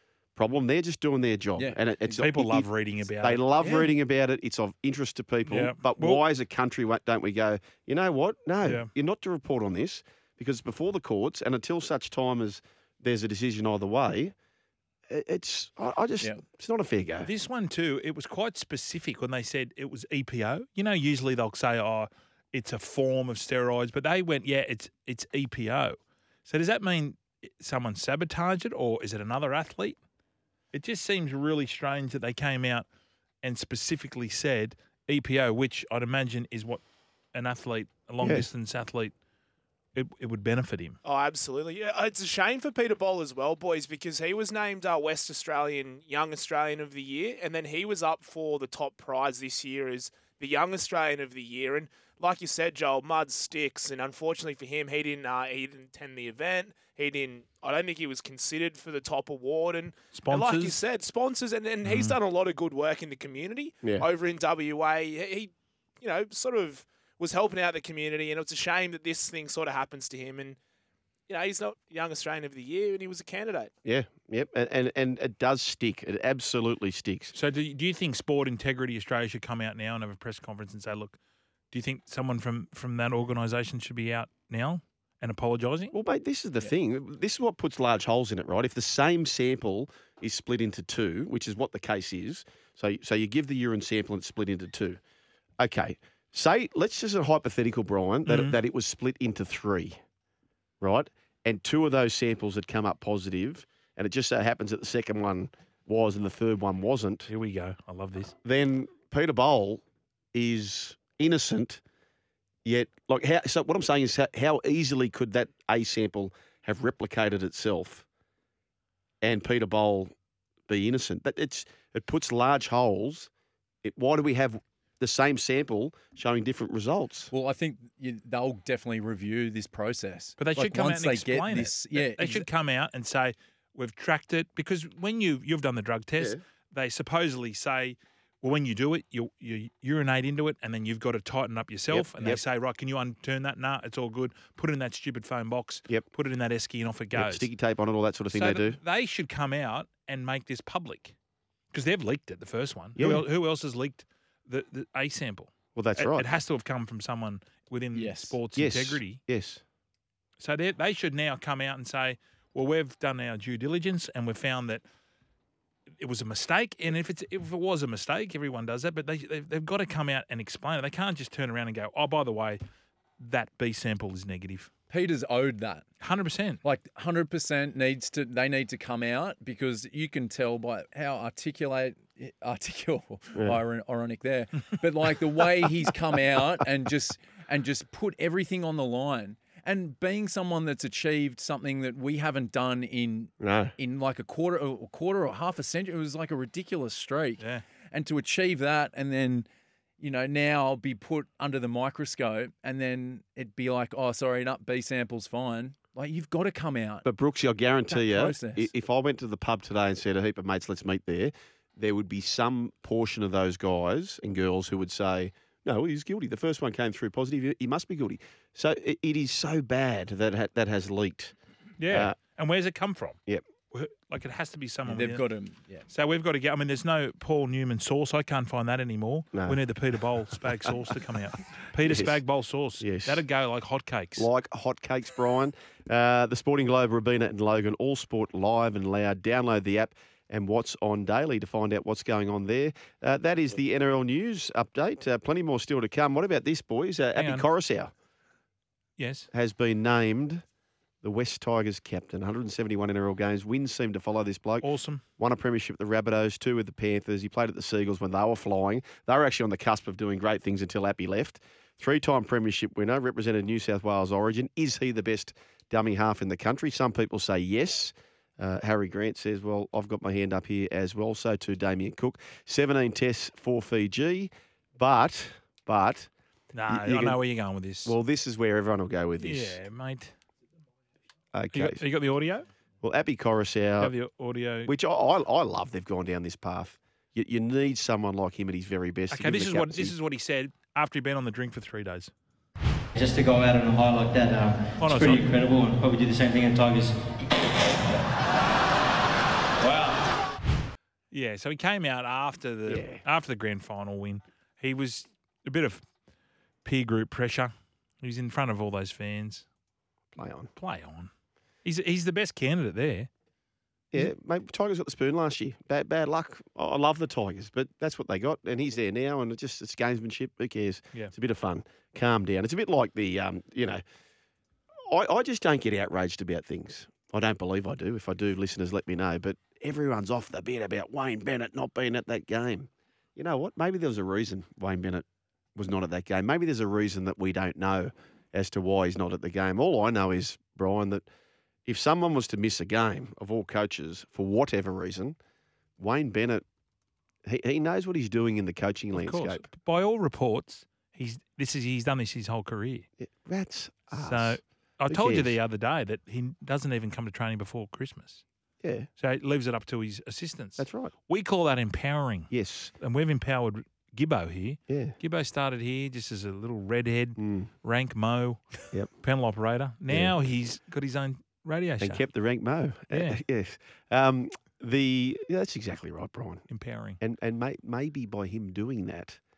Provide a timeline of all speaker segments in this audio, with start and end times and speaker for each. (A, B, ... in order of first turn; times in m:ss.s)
0:00.4-0:02.7 A
0:01.6-0:02.2 B
0:02.2-0:03.4 C
0:03.2-0:14.3 A
0:05.5-0:06.2 C
0:08.6-0:08.9 C
0:15.1-0:17.3 A
0:17.2-0:30.0 C
0:30.7-0:32.9 C
0:33.4-0:36.8 C
0:37.3-0:39.1 C
0:38.2-0:38.5 A
0:40.0-0:41.0 C
0:41.0-1:10.6 D
1:00.1-1:00.8 C
1:01.8-1:02.2 C
1:11.3-1:13.7 D
1:13.8-1:17.3 A
1:17.3-1:21.2 C
1:21.7-1:26.0 C
1:25.9-1:35.0 A
1:35.6-1:40.0 A
1:38.3-1:38.6 C
1:40.8-1:47.3 A
1:47.3-1:48.4 C
1:48.4-1:49.8 A
1:50.3-1:51.8 A
1:52.6-1:58.0 A
1:59.2-2:00.1 A
2:00.7-2:03.3 A
2:03.8-2:07.3 A
2:07.3-2:12.5 B
2:10.4-2:27.5 C
2:21.9-2:22.4 A
2:27.2-2:28.8 A
2:28.3-2:31.2 C
2:31.7-2:39.2 C
2:33.0-2:33.3 A
2:35.8-2:36.3 A
2:37.9-2:38.4 B
2:38.6-2:39.6 A
2:40.4-2:44.8 C
2:46.0-2:52.6 C
2:53.2-2:54.7 C
2:54.9-2:55.9 B
2:56.0-2:56.6 C
2:56.6-3:19.5 B
3:13.4-3:13.7 A
3:20.0-3:27.1 B
3:27.0-3:41.3 A
3:27.9-3:28.7 B
3:41.8-3:43.2 C
3:43.7-3:45.2 C
3:44.9-3:45.9 B
3:45.9-3:54.3 C
3:51.8-3:52.2 A
3:52.8-3:53.2 A
3:54.2-4:07.9 A
4:07.2-4:07.5 C
4:09.0-4:09.3 C
4:09.3-4:10.4 A
4:11.0-4:14.7 A
4:14.6-4:15.0 C
4:15.2-4:36.1 A
4:36.5-4:37.9 C
4:36.7-4:37.2 A
4:37.9-4:39.6 A
4:39.2-4:40.1 C
4:41.3-4:41.8 A
4:41.5-4:42.5 C
4:42.8-4:43.9 A
4:43.8-4:44.7 C
4:44.7-4:49.9 A
4:49.1-4:52.1 C
4:53.0-4:57.0 E
4:54.8-4:55.5 C
4:59.6-5:00.0 C
5:01.1-5:05.8 C
5:02.7-5:03.0 A
5:06.6-5:09.4 C
5:10.2-5:10.5 A
5:10.6-5:11.1 C
5:11.6-5:13.1 C
5:13.9-5:23.8 A
5:24.9-5:35.0 A
5:35.6-5:41.0 A
5:41.7-5:45.2 A
5:45.8-5:46.4 A
5:47.3-5:49.4 A
5:48.9-5:52.9 C
5:53.0-5:55.3 A
5:54.0-5:58.2 C
5:58.6-5:58.9 A
5:59.0-6:12.0 C
6:00.6-6:00.9 A
6:02.3-6:02.7 A
6:04.7-6:05.0 A
6:07.2-6:07.5 A
6:09.9-6:10.2 A
6:11.8-6:16.4 A
6:12.9-6:13.2 C
6:16.5-6:17.0 C
6:17.0-6:19.2 A